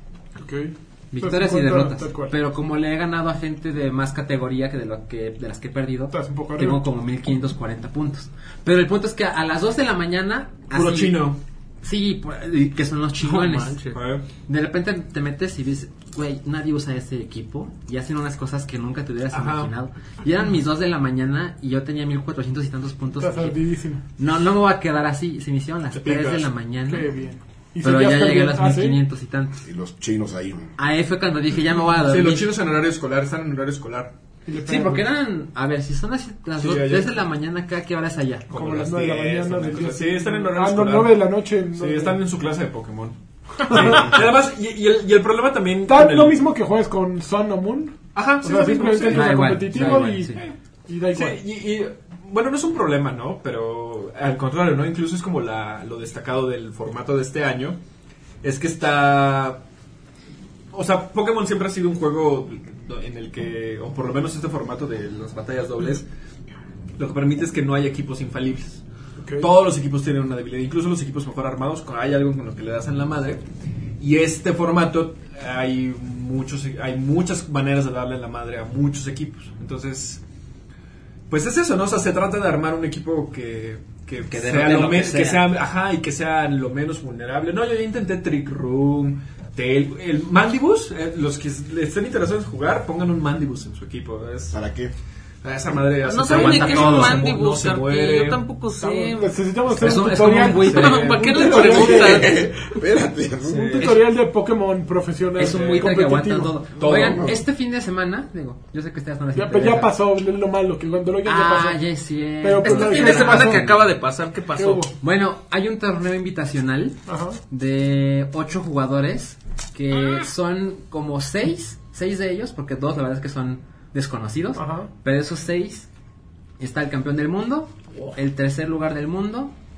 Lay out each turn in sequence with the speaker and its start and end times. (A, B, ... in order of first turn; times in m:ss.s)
0:00.4-0:02.3 A
0:01.1-0:23.6 B
0:06.1-0:06.8 A
0:10.7-0:11.4 C
0:13.2-0:14.0 D
0:13.9-0:14.3 C
0:19.3-0:19.7 C
0:23.2-0:24.0 A
0:24.2-0:27.1 B
0:25.9-0:26.5 C
0:26.9-0:29.0 A
0:27.8-0:29.6 B
0:29.6-0:30.7 E
0:30.8-0:32.5 B
0:32.0-0:34.1 C
0:34.4-0:35.0 A
0:34.6-0:38.5 B
0:36.6-0:37.2 C
0:38.5-0:46.4 C
0:38.5-0:42.2 A
0:43.7-0:44.0 A
0:45.8-0:51.4 A
0:48.1-0:50.5 C
0:49.0-0:50.4 B
0:51.1-0:57.8 C
0:58.4-0:59.6 C
1:00.7-1:06.0 C
1:07.0-1:08.8 C
1:09.2-1:09.5 A
1:09.4-1:13.4 C
1:14.0-1:20.2 C
1:21.3-1:34.6 C
1:24.3-1:25.5 B
1:34.5-1:34.9 E
1:35.4-1:38.4 C
1:36.0-1:39.4 D
1:36.2-1:37.3 B
1:38.8-1:42.4 A
1:39.7-1:41.1 B
1:39.8-1:42.3 C
1:40.5-1:42.4 D
1:41.8-1:43.8 E
1:43.4-1:44.0 C
1:43.5-1:46.6 A
1:45.4-1:49.9 B
1:45.5-1:45.9 C
1:46.7-1:47.4 C
1:46.8-1:47.4 E
1:49.3-1:51.8 A
1:51.2-1:53.9 B
1:52.4-1:53.7 A
1:52.6-1:54.9 D
1:54.5-1:54.9 A
1:55.0-2:05.9 B
1:57.1-1:57.4 A
2:04.6-2:04.9 A
2:06.6-2:09.5 B